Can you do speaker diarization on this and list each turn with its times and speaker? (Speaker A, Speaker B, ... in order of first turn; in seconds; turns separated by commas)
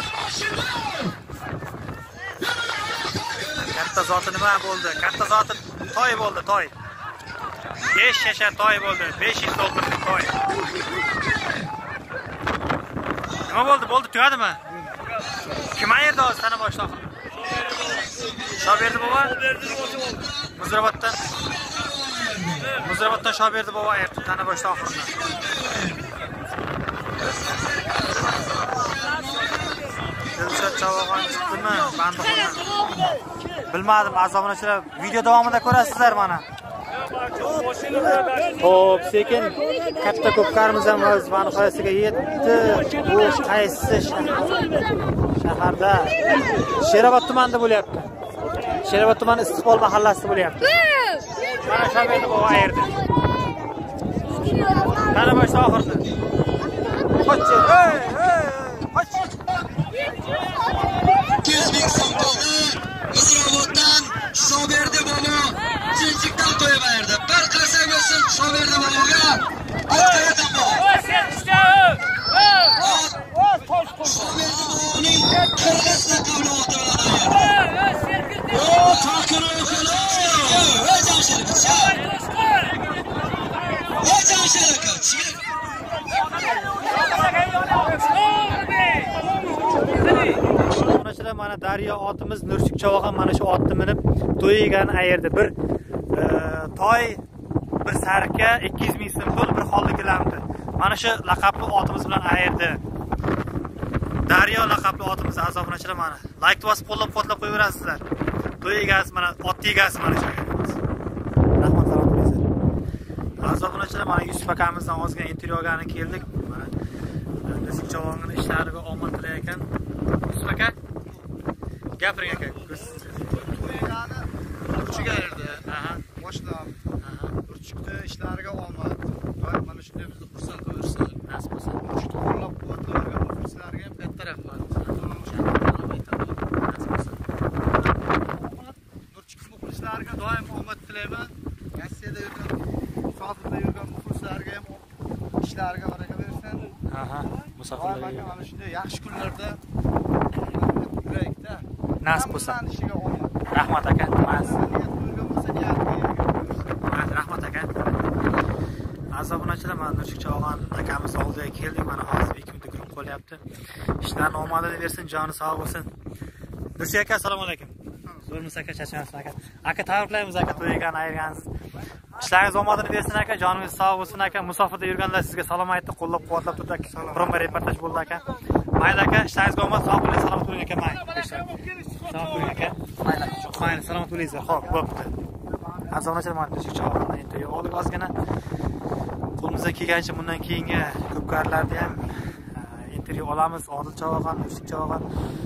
Speaker A: 0.5-1.1, Speaker B: 3.7-6.7, Speaker B: 7.9-10.3, Speaker B: 13.5-14.6, Speaker B: 15.7-17.0, Speaker A: 17.6-18.7, Speaker B: 18.6-19.4, Speaker A: 19.4-20.3, Speaker B: 20.6-21.2, Speaker A: 21.7-22.8, Speaker B: 22.8-25.1, Speaker A: 25.1-26.1, Speaker A: 27.2-29.2, Speaker B: 30.4-32.7, Speaker B: 33.7-36.4, Speaker B: 38.6-46.2, Speaker B: 46.8-48.1, Speaker B: 48.8-50.8, Speaker B: 51.7-52.9, Speaker B: 55.1-56.0, Speaker B: 57.2-59.2, Speaker A: 61.4-71.4, Speaker A: 72.8-73.2, Speaker A: 74.0-77.6, Speaker A: 78.4-82.0, Speaker A: 84.0-85.4, Speaker B: 90.0-95.5, Speaker B: 96.1-97.2, Speaker B: 97.8-102.8, Speaker B: 104.3-108.0, Speaker B: 108.6-110.8, Speaker B: 111.5-112.5, Speaker B: 113.4-116.7, Speaker B: 117.5-119.7, Speaker B: 120.3-120.8, Speaker B: 122.0-123.2, Speaker C: 123.0-126.8, Speaker B: 125.5-126.0, Speaker B: 127.0-127.3, Speaker C: 127.5-131.2, Speaker B: 131.3-131.8, Speaker C: 131.8-136.5, Speaker B: 134.8-135.5, Speaker B: 136.6-137.2, Speaker C: 139.1-142.6, Speaker C: 143.2-144.9, Speaker C: 145.4-146.7, Speaker B: 146.9-148.3, Speaker C: 147.8-149.6, Speaker C: 150.4-153.4, Speaker B: 152.0-152.6, Speaker B: 153.5-154.5, Speaker C: 154.2-156.8, Speaker B: 156.9-157.8, Speaker B: 159.1-163.4, Speaker B: 164.0-165.9, Speaker B: 166.8-167.7, Speaker B: 168.3-171.5, Speaker B: 172.2-178.2, Speaker C: 176.9-177.3, Speaker B: 178.8-181.5, Speaker B: 182.1-185.1, Speaker B: 185.9-188.1, Speaker B: 189.4-192.1, Speaker B: 192.6-195.1